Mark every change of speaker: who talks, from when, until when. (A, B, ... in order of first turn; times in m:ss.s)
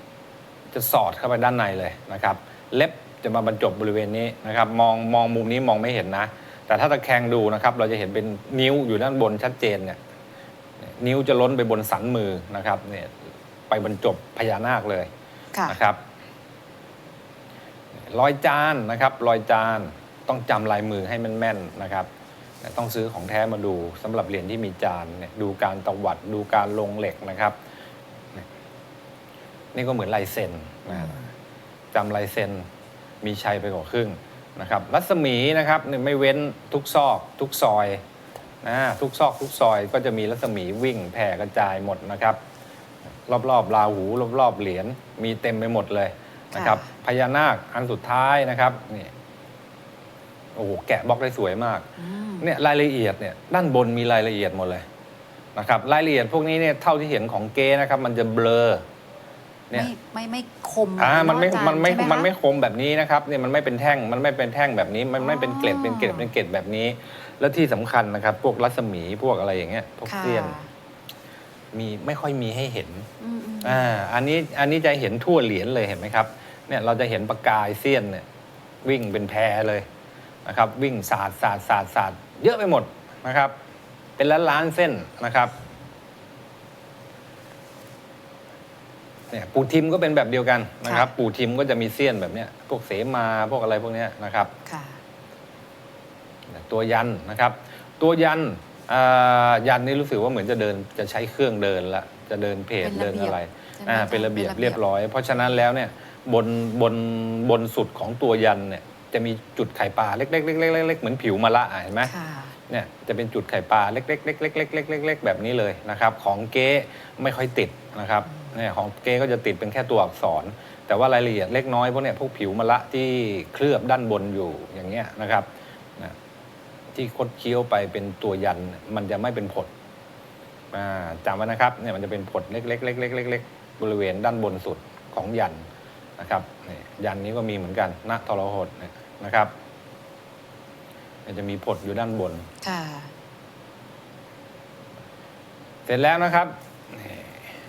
0:00.7-0:10.0 A
0:10.8-0:13.1 A
0:13.7-0:15.1 A
0:15.5-0:15.8 B
0:15.6-0:16.0 A
0:18.0-0:22.1 A
0:22.6-0:27.6 A
0:29.7-0:31.3 A
0:30.9-0:31.2 B
0:31.9-0:32.7 A
0:33.2-0:38.0 A
0:38.6-0:42.4 A
0:43.3-0:49.1 A
0:46.5-0:46.8 B
0:50.5-0:51.9 A
0:52.0-0:52.5 B
0:52.4-0:54.8 A
0:55.6-0:58.8 A
0:59.7-1:02.3 B
1:01.0-1:10.6 A
1:05.2-1:06.3 B
1:10.0-1:10.7 B
1:11.7-1:13.1 A
1:13.2-1:13.9 B
1:13.6-1:18.2 A
1:18.8-1:19.8 A
1:20.4-1:23.5 A
1:24.2-1:25.5 A
1:29.3-1:34.5 A
1:30.8-1:31.1 B
1:34.6-1:35.0 B
1:36.5-1:52.1 A
1:42.8-1:44.8 B
1:52.0-1:52.6 B
1:52.7-2:06.2 A
2:06.9-2:09.7 A
2:10.7-2:15.6 A
2:16.2-2:19.5 A
2:21.2-2:22.5 A
2:22.6-2:23.1 B
2:25.9-2:27.4 A